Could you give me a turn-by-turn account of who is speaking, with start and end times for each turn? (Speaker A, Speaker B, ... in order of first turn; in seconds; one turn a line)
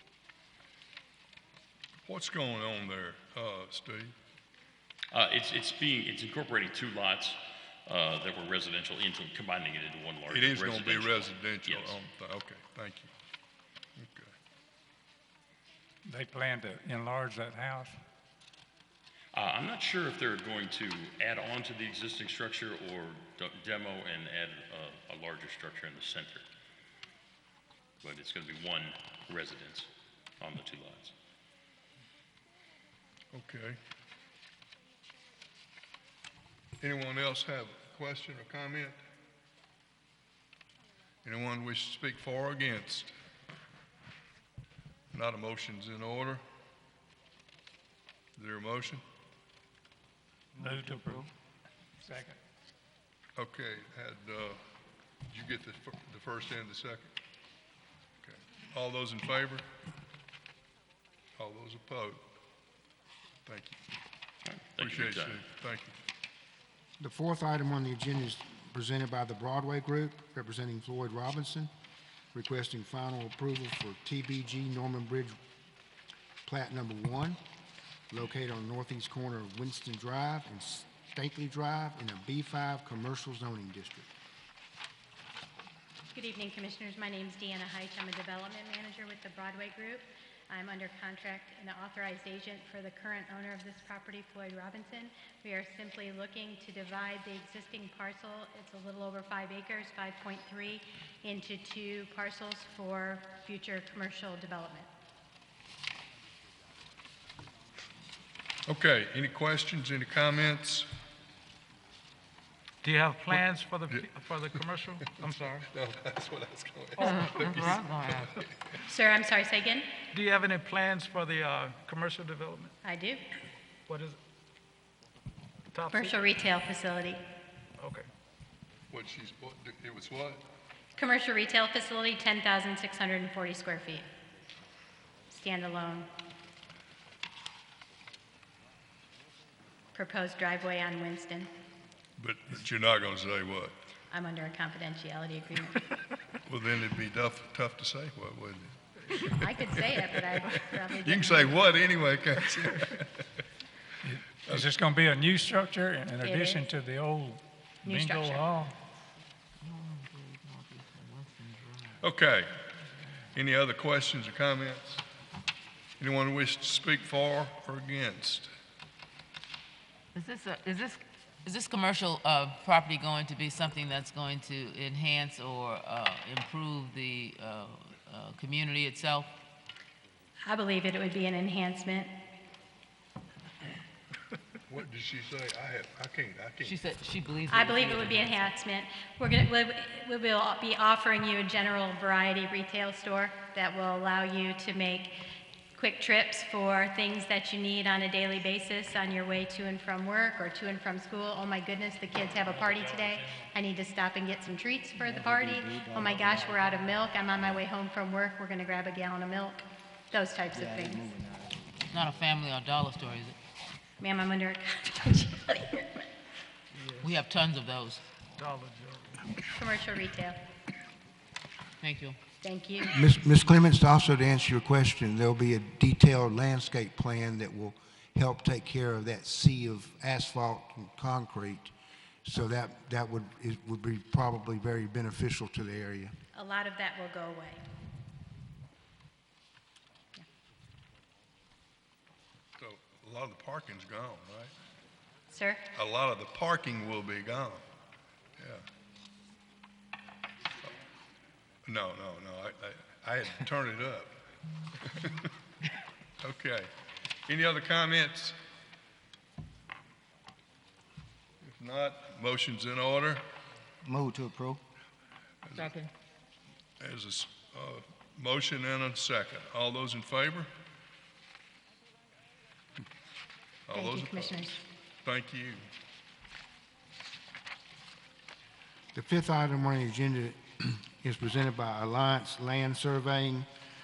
Speaker A: 2.0-4.1
Speaker B: 5.1-12.0
Speaker A: 10.3-13.1
Speaker A: 14.0-14.3
Speaker C: 16.1-18.0
Speaker B: 19.3-26.5
Speaker B: 28.0-29.9
Speaker B: 30.4-31.1
Speaker A: 33.3-33.8
Speaker A: 36.8-39.0
Speaker A: 41.2-43.1
Speaker A: 45.1-46.4
Speaker A: 48.4-49.0
Speaker C: 50.6-51.3
Speaker C: 52.0-52.4
Speaker A: 53.4-54.6
Speaker A: 55.3-57.1
Speaker A: 58.2-59.6
Speaker A: 61.4-62.2
Speaker A: 63.5-63.8
Speaker B: 64.5-65.4
Speaker A: 64.8-66.0
Speaker D: 67.0-71.7
Speaker D: 72.3-75.4
Speaker D: 76.4-77.4
Speaker D: 78.1-84.1
Speaker E: 86.1-104.9
Speaker A: 108.7-110.9
Speaker F: 112.8-115.7
Speaker A: 115.7-118.4
Speaker G: 117.0-118.3
Speaker F: 117.0-117.8
Speaker E: 118.9-119.9
Speaker F: 120.1-122.7
Speaker E: 122.8-123.2
Speaker F: 123.9-124.2
Speaker F: 125.7-126.1
Speaker E: 125.9-127.2
Speaker F: 127.8-128.1
Speaker A: 128.9-130.4
Speaker E: 131.0-134.1
Speaker E: 135.3-136.1
Speaker E: 139.9-141.5
Speaker A: 142.2-143.8
Speaker E: 144.1-145.8
Speaker A: 146.4-148.8
Speaker E: 149.2-151.7
Speaker A: 151.0-153.2
Speaker C: 154.0-158.8
Speaker E: 156.2-156.6
Speaker E: 157.8-158.6
Speaker G: 159.6-162.0
Speaker A: 162.0-162.6
Speaker A: 163.3-165.0
Speaker A: 166.0-168.5
Speaker G: 170.1-179.3
Speaker E: 180.4-182.1
Speaker A: 184.7-186.8
Speaker G: 186.6-188.4
Speaker E: 187.5-195.1
Speaker E: 195.8-211.1
Speaker D: 205.5-206.2
Speaker G: 211.9-213.4
Speaker E: 214.0-216.1
Speaker F: 216.7-217.1
Speaker G: 217.0-218.0
Speaker F: 218.4-219.3
Speaker E: 219.5-220.4
Speaker G: 221.8-222.2
Speaker E: 222.4-222.9
Speaker D: 222.9-231.7
Speaker D: 232.2-236.1
Speaker E: 236.3-237.6
Speaker A: 242.6-244.5
Speaker E: 245.3-245.6
Speaker A: 245.7-247.7
Speaker A: 248.4-248.7
Speaker A: 251.6-254.1
Speaker A: 254.8-255.3
Speaker A: 256.2-256.7
Speaker A: 257.2-258.4
Speaker A: 261.4-263.2
Speaker D: 264.1-264.5
Speaker A: 265.4-265.8
Speaker A: 266.8-270.5
Speaker A: 273.7-275.6
Speaker E: 273.7-274.6
Speaker D: 278.9-283.5